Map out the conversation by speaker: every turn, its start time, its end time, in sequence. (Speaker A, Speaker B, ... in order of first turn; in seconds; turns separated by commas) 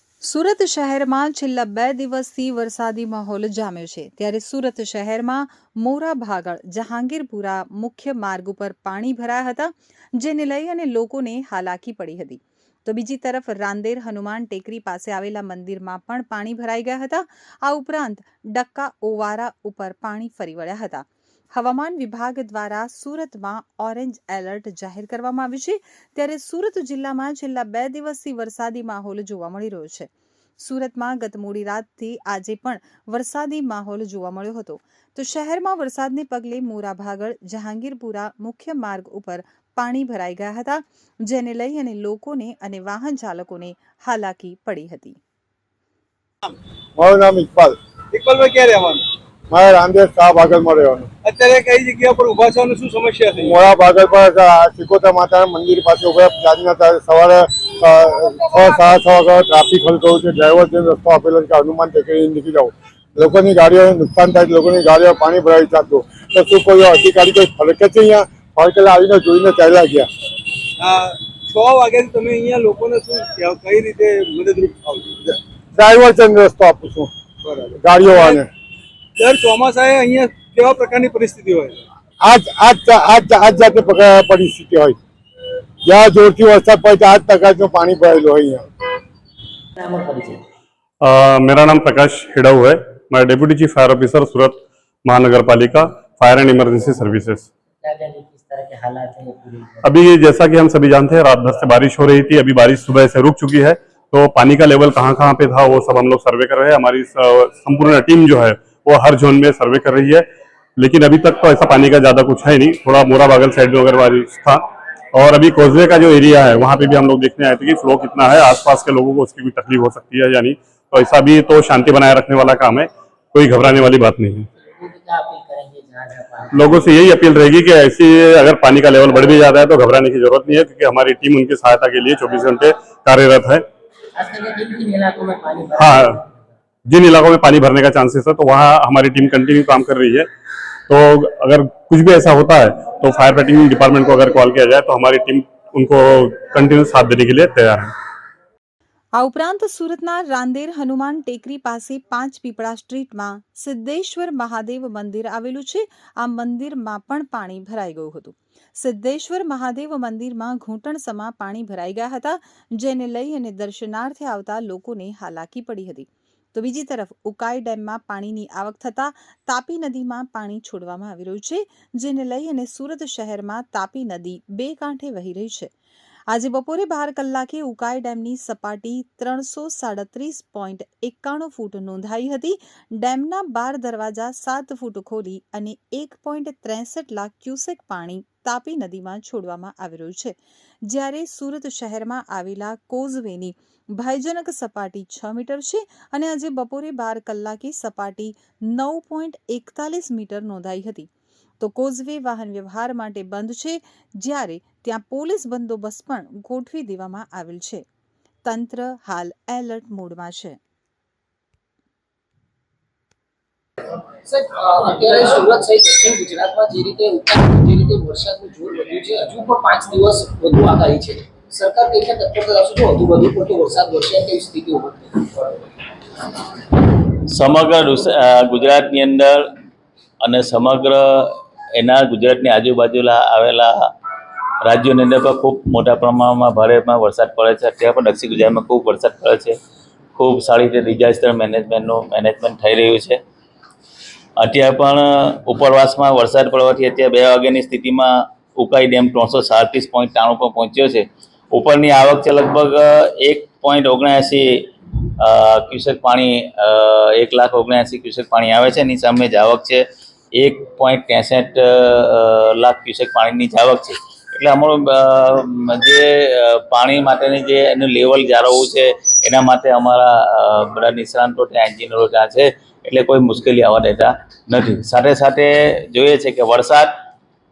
Speaker A: 0.2-30.1, Speaker A: 30.6-45.2, Speaker B: 47.0-47.8, Speaker C: 48.1-49.0, Speaker B: 49.5-51.1, Speaker C: 51.2-53.5, Speaker B: 53.4-70.1, Speaker C: 70.8-75.2, Speaker B: 75.3-77.1, Speaker C: 77.4-78.4, Speaker B: 77.8-78.5, Speaker C: 79.2-81.8, Speaker B: 82.2-85.0, Speaker B: 85.8-88.6, Speaker D: 89.8-90.4, Speaker E: 91.0-97.5, Speaker D: 97.8-99.9, Speaker E: 99.8-110.2, Speaker E: 110.8-114.6, Speaker E: 115.1-124.5, Speaker D: 124.6-127.1, Speaker E: 126.5-133.6, Speaker D: 134.2-136.4, Speaker E: 135.7-136.2, Speaker E: 136.9-140.3, Speaker E: 140.9-147.9, Speaker A: 149.2-175.7, Speaker A: 176.3-201.1, Speaker A: 201.6-207.8, Speaker A: 208.4-210.6, Speaker F: 214.3-225.3, Speaker G: 227.3-229.4, Speaker G: 230.2-233.7, Speaker G: 234.6-239.5, Speaker G: 240.2-243.2, Speaker G: 244.4-254.7, Speaker G: 255.2-259.8, Speaker G: 260.4-276.9